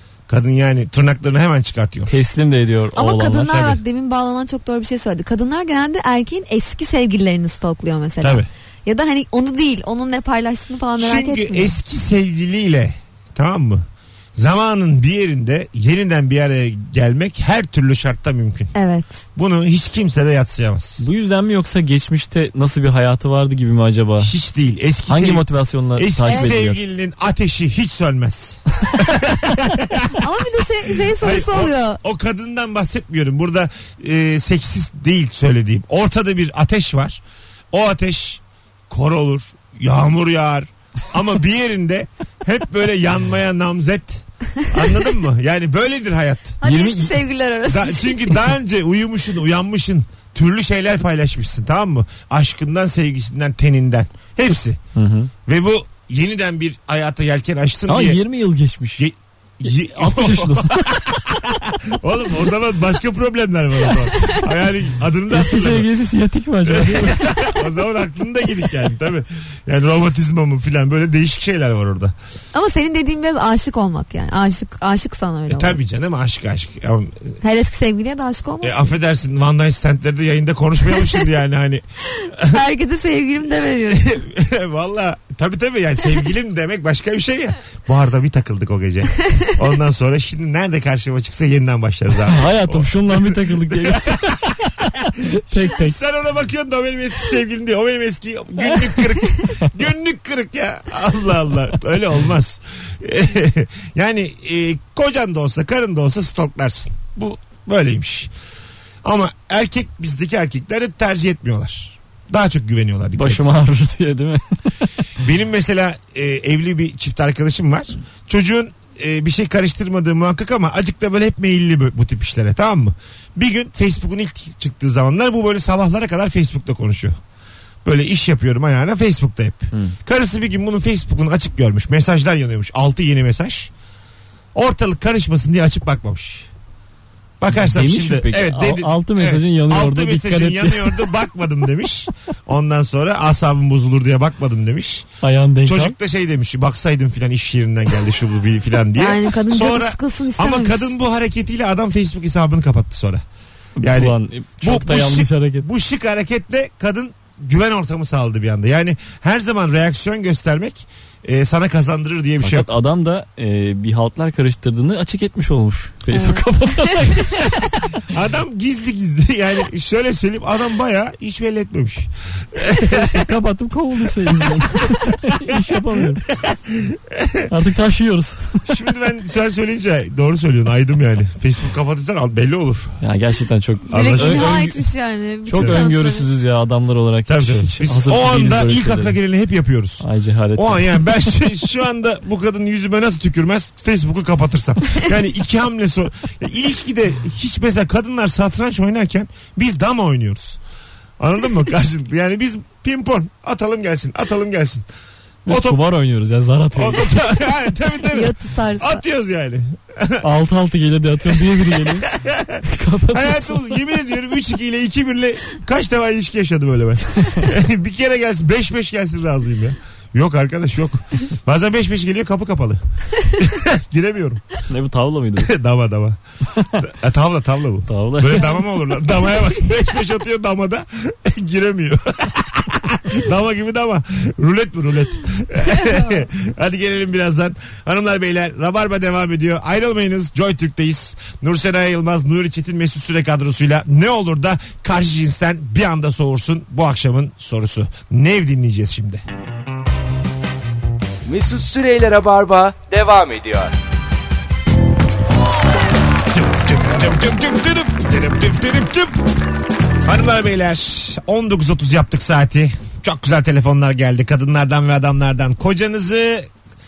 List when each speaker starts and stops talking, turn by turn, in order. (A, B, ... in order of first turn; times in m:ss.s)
0:00.3-0:02.2 A
0:02.1-0:03.8 B
0:03.0-0:11.8 C
0:08.2-0:08.5 A
0:11.0-0:18.7 A
0:18.8-0:19.2 C
0:19.4-0:21.1 A
0:21.0-0:24.3 B
0:24.2-0:30.1 A
0:25.1-0:26.8 B
0:26.3-0:26.5 C
0:30.1-0:32.0 C
0:31.1-0:46.6 A
0:46.6-0:48.4 C
0:46.6-0:47.1 B
0:47.7-0:54.8 A
0:55.0-0:55.3 B
0:55.5-0:58.2 A
0:57.9-0:59.1 B
0:59.0-1:05.9 A
0:59.7-1:01.0 B
1:05.3-1:07.5 B
1:06.6-1:12.1 A
1:12.5-1:15.8 C
1:15.5-1:17.4 A
1:17.4-1:18.9 C
1:18.6-1:21.8 A
1:22.4-1:24.1 C
1:23.9-1:34.4 A
1:32.3-1:36.0 B
1:35.5-1:48.3 A
1:49.0-1:53.6 A
1:53.2-1:54.5 B
1:55.2-2:07.2 A
2:07.8-2:13.7 A
2:14.6-2:16.5 A
2:17.4-2:25.1 A
2:17.5-2:21.1 B
2:25.2-2:26.0 B
2:25.6-2:33.2 A
2:29.0-2:30.9 C
2:33.8-2:35.7 B
2:33.8-2:42.7 A
2:42.4-2:47.7 B
2:46.1-2:46.9 C
2:48.1-2:53.3 A
2:52.8-2:56.3 B
2:54.3-2:54.6 A
2:56.3-2:57.5 A
2:57.5-2:58.7 B
2:58.7-3:03.0 A
3:03.0-3:04.8 B
3:03.9-3:04.6 A
3:03.9-3:06.3 C
3:05.4-3:09.2 B
3:05.5-3:05.8 A
3:07.3-3:20.6 A
3:10.0-3:11.3 B
3:21.2-3:24.9 A
3:25.5-3:27.2 B
3:25.5-3:25.8 A
3:26.8-3:30.2 A
3:28.1-3:29.0 C
3:30.2-3:32.1 B
3:31.4-3:44.4 A
3:32.6-3:33.8 B
3:37.2-3:37.5 B
3:44.7-3:45.5 B
3:45.4-3:46.2 A
3:46.8-4:09.2 A
3:47.9-3:48.6 B
4:11.2-4:13.7 D
4:16.3-4:19.2 A
4:20.0-4:26.5 A